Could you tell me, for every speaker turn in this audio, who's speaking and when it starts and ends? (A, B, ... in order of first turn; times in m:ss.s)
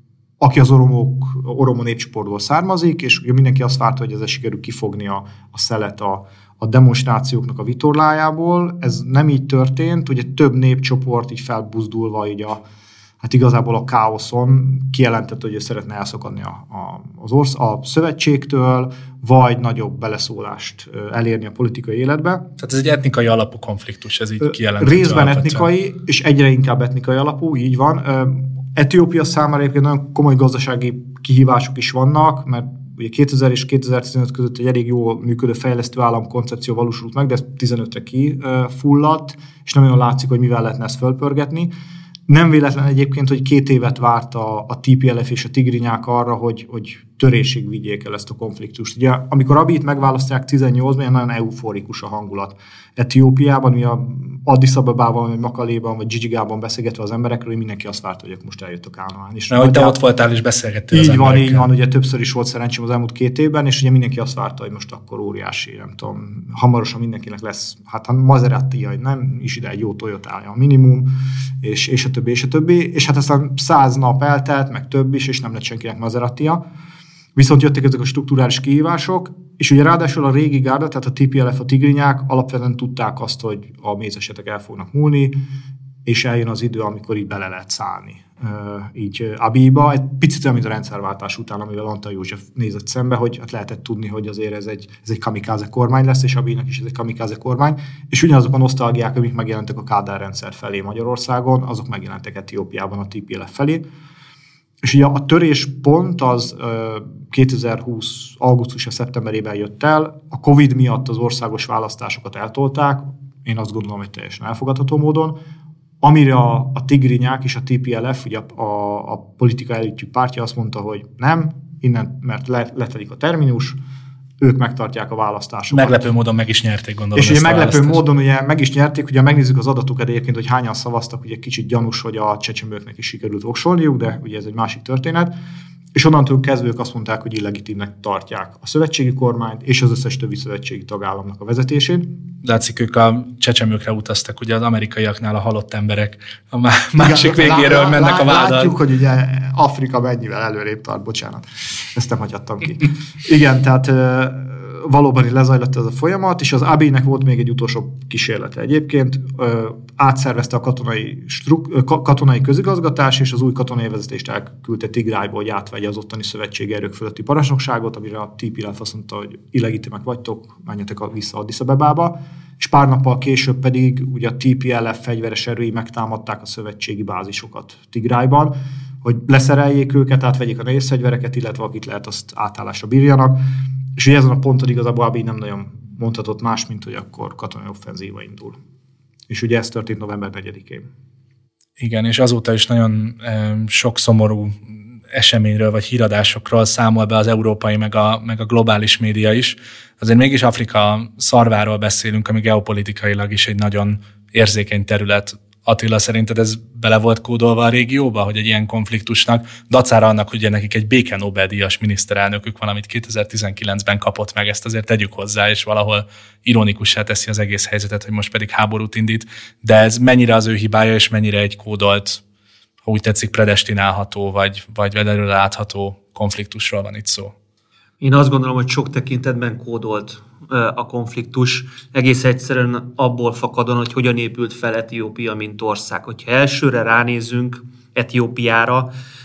0:00.4-0:12.6 A
0:13.2-0:22.4 A
0:22.6-0:25.6 B
0:24.4-0:41.7 A
0:42.3-1:00.0 A
0:59.5-1:01.7 B
1:00.9-1:11.1 A
1:11.6-1:16.6 A
1:17.3-1:25.3 A
1:26.0-1:43.8 A
1:44.8-1:55.4 A
1:56.0-2:03.8 A
2:04.4-2:06.1 A
2:05.7-2:08.0 B
2:07.2-2:15.3 A
2:16.0-2:22.0 A
2:22.4-2:28.7 B
2:26.9-3:03.4 A
3:04.0-3:08.6 A
3:09.3-3:10.9 A
3:11.8-3:42.2 B
3:42.8-3:47.3 B
3:48.0-3:58.9 C